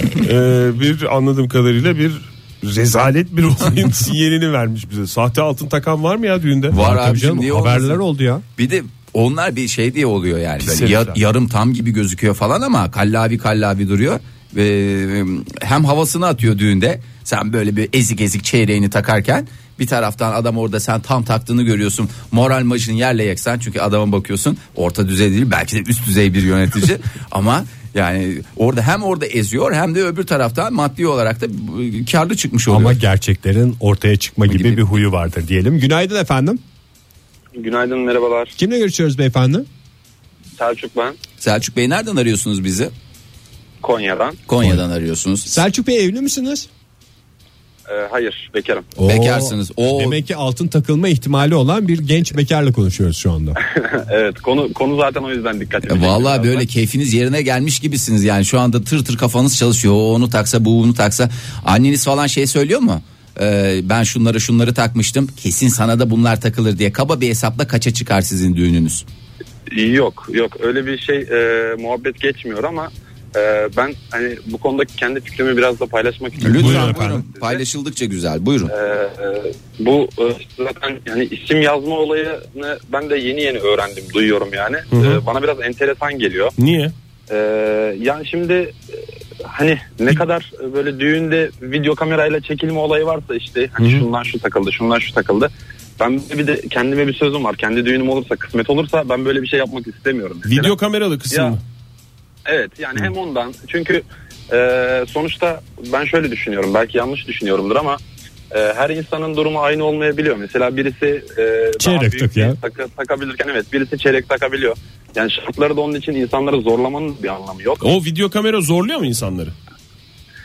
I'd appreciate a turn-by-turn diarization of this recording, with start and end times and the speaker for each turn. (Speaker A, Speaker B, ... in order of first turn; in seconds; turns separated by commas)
Speaker A: 0.2-6.8, Speaker B: 6.7-8.0, Speaker C: 6.7-8.4, Speaker B: 8.6-33.0, Speaker A: 10.6-11.2, Speaker C: 32.7-36.6, Speaker B: 34.5-34.9, Speaker D: 37.6-38.5, Speaker C: 38.6-39.7, Speaker D: 40.6-41.2, Speaker B: 41.4-42.9, Speaker D: 43.8-44.4, Speaker B: 44.5-45.6, Speaker C: 45.5-46.7, Speaker D: 47.9-48.9, Speaker C: 49.0-53.6, Speaker B: 49.0-50.2, Speaker D: 53.6-56.7, Speaker B: 55.8-69.0, Speaker D: 69.7-77.6, Speaker B: 76.4-78.7, Speaker C: 76.5-77.2, Speaker D: 78.7-86.5, Speaker A: 84.9-85.2, Speaker A: 86.6-86.9, Speaker D: 87.3-88.8, Speaker D: 89.4-100.7, Speaker A: 93.8-94.0, Speaker A: 100.4-101.6, Speaker D: 101.3-101.5, Speaker D: 102.5-108.0, Speaker D: 108.5-117.8, Speaker C: 111.8-112.6, Speaker A: 117.8-119.5